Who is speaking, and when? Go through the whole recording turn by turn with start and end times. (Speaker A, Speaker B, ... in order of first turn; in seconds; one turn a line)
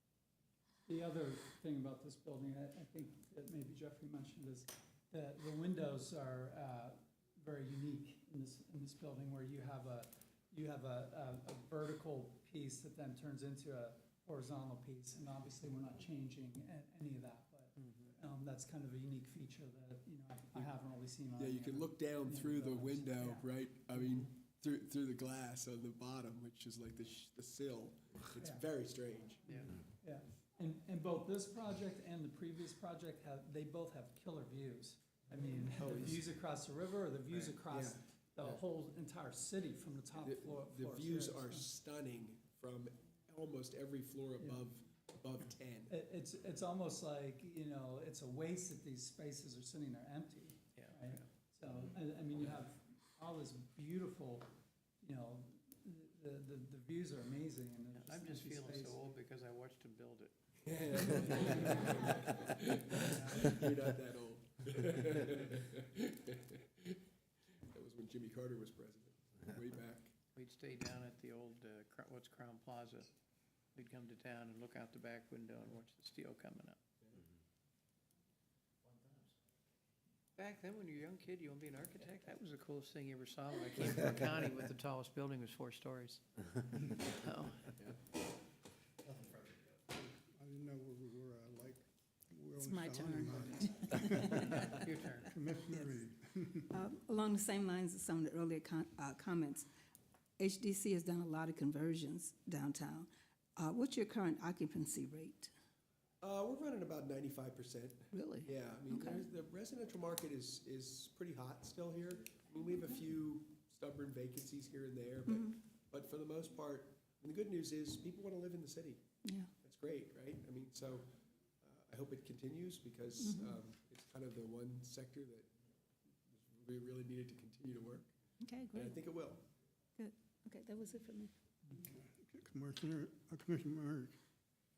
Speaker A: 0.9-23.9
Speaker B: 17.8-18.1
Speaker C: 21.4-29.6
Speaker A: 28.4-28.6
Speaker B: 29.5-29.7
Speaker A: 30.0-41.6
Speaker C: 35.8-36.2
Speaker B: 37.3-37.6
Speaker C: 37.7-38.6
Speaker C: 40.2-46.0
Speaker A: 44.4-44.6
Speaker A: 45.9-54.5
Speaker B: 50.8-51.3
Speaker A: 55.0-59.0
Speaker B: 57.9-60.3
Speaker C: 60.6-67.0
Speaker B: 60.9-61.7
Speaker A: 61.5-62.3
Speaker A: 62.9-63.6
Speaker C: 67.6-70.1
Speaker B: 70.3-73.1
Speaker B: 73.7-76.8
Speaker B: 78.9-79.3
Speaker B: 80.4-87.8
Speaker B: 89.2-89.6
Speaker D: 89.9-96.7
Speaker E: 92.6-94.6
Speaker B: 94.7-95.3
Speaker E: 95.7-96.0
Speaker E: 96.7-99.7
Speaker E: 100.4-105.5
Speaker C: 106.2-119.0
Speaker E: 108.1-109.2
Speaker E: 115.3-115.5
Speaker E: 119.2-119.5
Speaker C: 119.6-121.1
Speaker C: 121.6-125.5
Speaker E: 123.2-123.6
Speaker C: 126.3-128.1
Speaker E: 128.4-129.0
Speaker C: 128.7-129.4
Speaker E: 130.0-131.3
Speaker D: 131.8-134.1